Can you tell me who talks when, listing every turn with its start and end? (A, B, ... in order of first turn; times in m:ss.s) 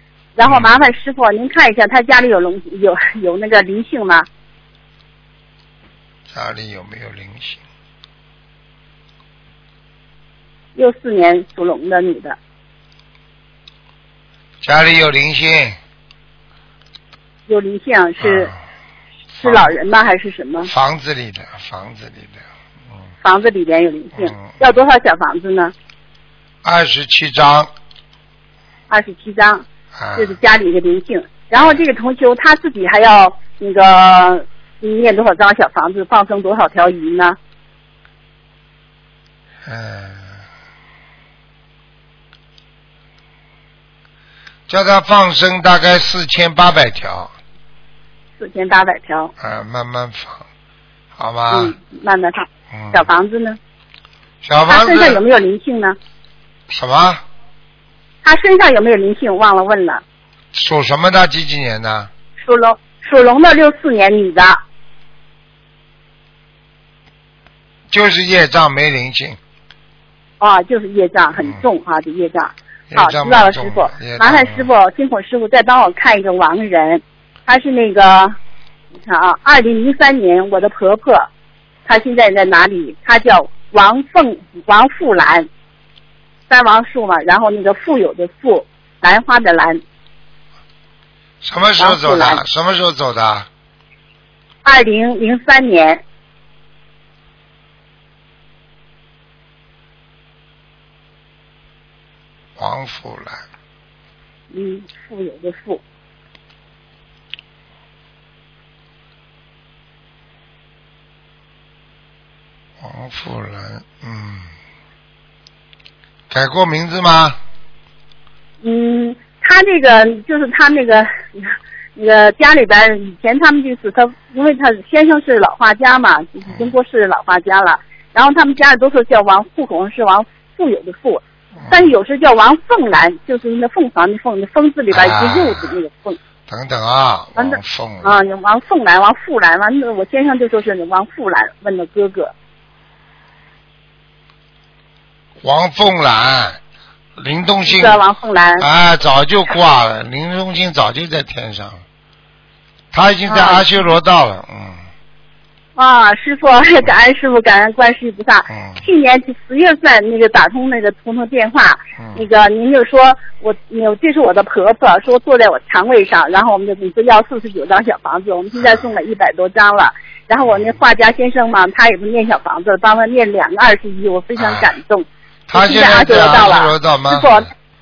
0:00.4-0:04.3 A
0:00.4-0:00.9 B
0:06.3-0:07.6 B
0:10.7-0:12.4 A
0:14.6-0:15.8 B
0:17.5-0:18.5 A
0:18.2-0:18.5 B
0:19.3-0:19.7 B
0:19.4-0:20.7 A
0:20.6-0:22.4 B
0:23.2-0:25.7 A
0:24.2-0:24.7 B
0:26.6-0:27.7 B
0:28.9-0:37.4 A
0:30.0-0:30.4 B
0:31.5-0:31.8 B
0:39.6-0:40.4 B
0:44.7-0:47.3 B
0:48.4-0:49.3 A
0:49.4-0:50.4 B
0:51.2-0:51.7 B
0:51.5-0:53.6 A
0:52.7-0:53.1 B
0:54.4-0:55.2 B
0:54.7-0:56.0 A
0:56.7-0:57.2 B
0:58.2-1:00.0 A
1:00.5-1:02.1 B
1:02.4-1:04.6 A
1:07.9-1:09.4 B
1:10.4-1:18.4 A
1:11.4-1:11.6 B
1:12.9-1:14.7 B
1:19.0-1:21.3 A
1:21.8-1:25.5 A
1:26.5-1:29.8 A
1:31.4-1:33.5 B
1:31.8-1:32.4 A
1:34.6-1:36.0 A
1:42.6-1:43.4 B
1:44.5-1:45.8 A
1:52.8-1:54.5 B
1:56.3-1:57.4 B
1:58.6-2:16.2 A
2:11.6-2:11.9 B
2:14.9-2:15.8 B
2:16.5-2:18.2 B
2:17.4-2:22.3 A
2:25.4-2:26.6 B
2:27.2-2:28.0 B
2:27.6-2:28.6 A
2:28.6-2:31.8 B
2:32.9-2:34.8 B
2:33.3-2:33.7 A
2:35.8-2:57.5 A
2:38.5-2:38.8 B
2:42.0-2:42.2 B
2:48.6-2:48.8 B
2:50.4-2:50.8 B
2:54.4-2:54.7 B
2:55.5-2:57.5 B